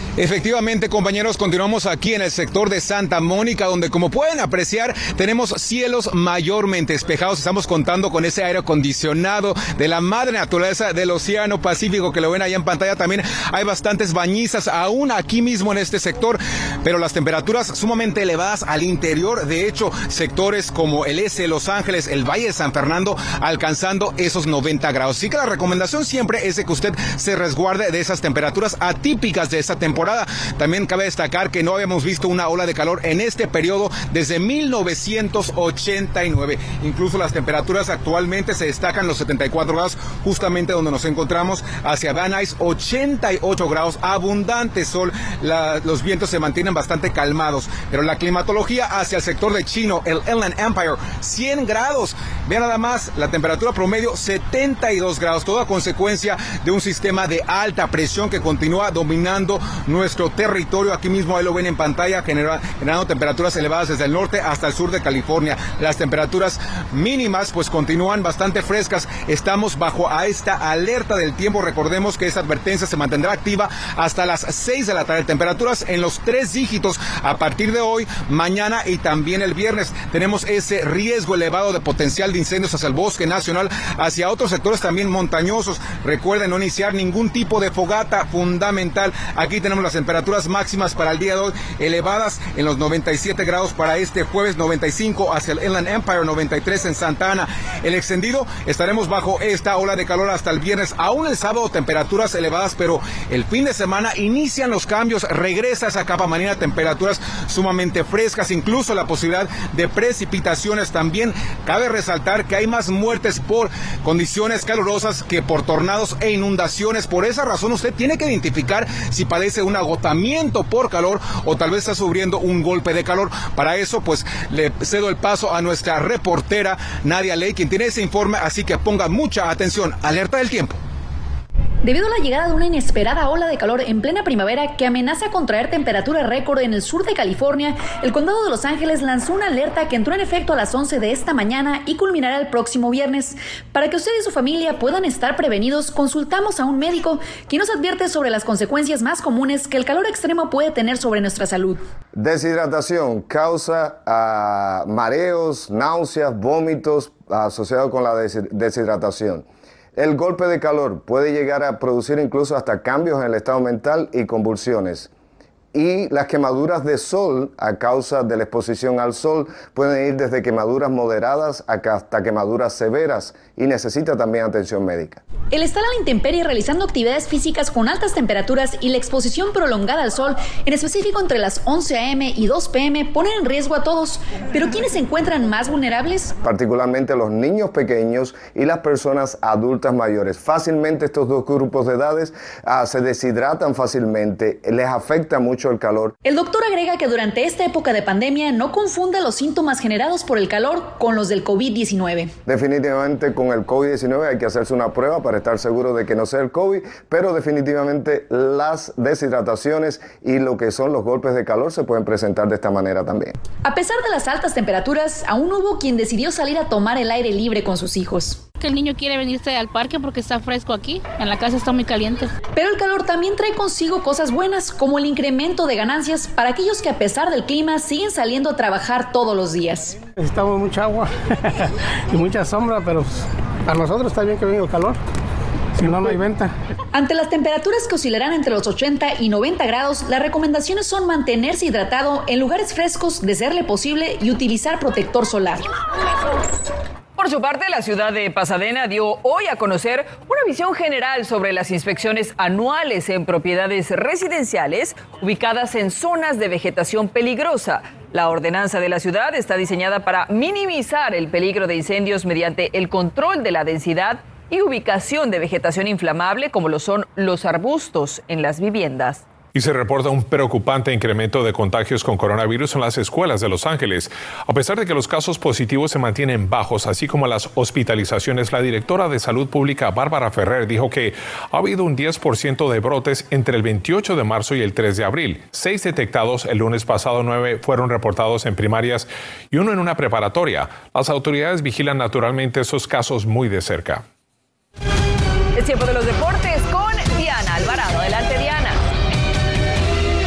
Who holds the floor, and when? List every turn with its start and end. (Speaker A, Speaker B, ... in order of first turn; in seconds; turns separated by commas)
Speaker A: 0.2-130.8, Speaker B: 131.8-151.8, Speaker C: 152.1-159.4, Speaker C: 160.0-165.1, Speaker C: 165.7-175.2, Speaker B: 175.5-186.3, Speaker C: 186.4-196.1, Speaker B: 196.2-202.3, Speaker C: 202.5-213.3, Speaker B: 213.6-218.4, Speaker D: 218.6-222.2, Speaker B: 222.6-229.9, Speaker E: 230.2-231.1, Speaker E: 232.1-233.1, Speaker E: 233.7-235.0, Speaker E: 235.8-236.5, Speaker B: 236.9-245.7, Speaker F: 247.2-269.2, Speaker G: 269.5-294.0, Speaker F: 295.6-298.8